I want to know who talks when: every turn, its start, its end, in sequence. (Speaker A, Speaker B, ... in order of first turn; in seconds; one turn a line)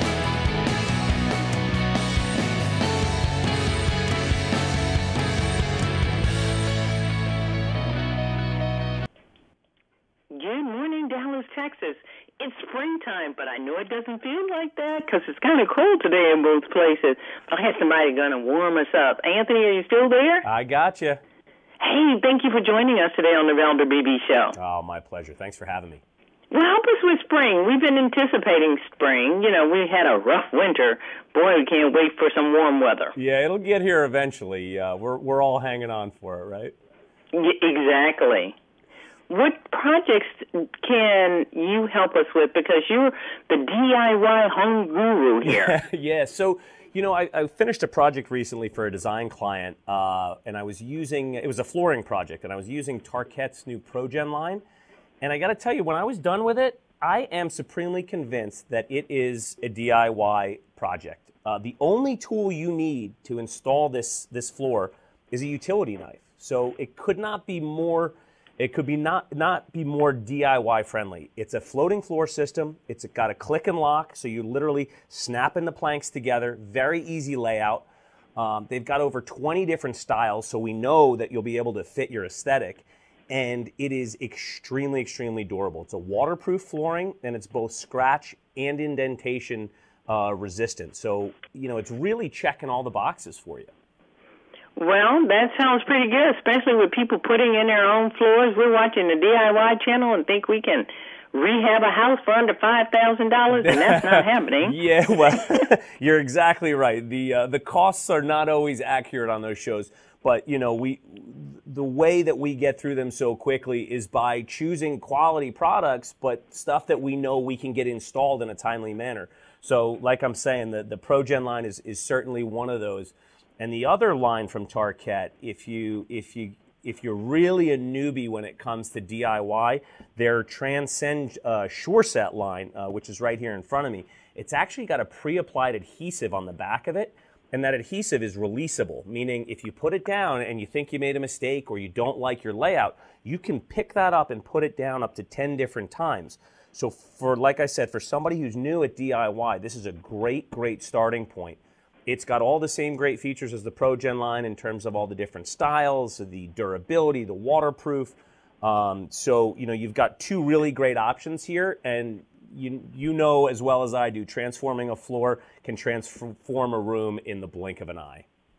Speaker A: 10.3-20.4
Speaker B: 20.4-21.2
Speaker A: 21.8-24.6
Speaker B: 24.5-26.0
Speaker A: 26.5-33.1
Speaker B: 33.2-36.7
Speaker A: 37.3-38.5
Speaker A: 39.3-45.7
Speaker B: 45.4-54.6
Speaker B: 55.2-93.7
Speaker A: 94.8-104.8
Speaker B: 103.5-168.2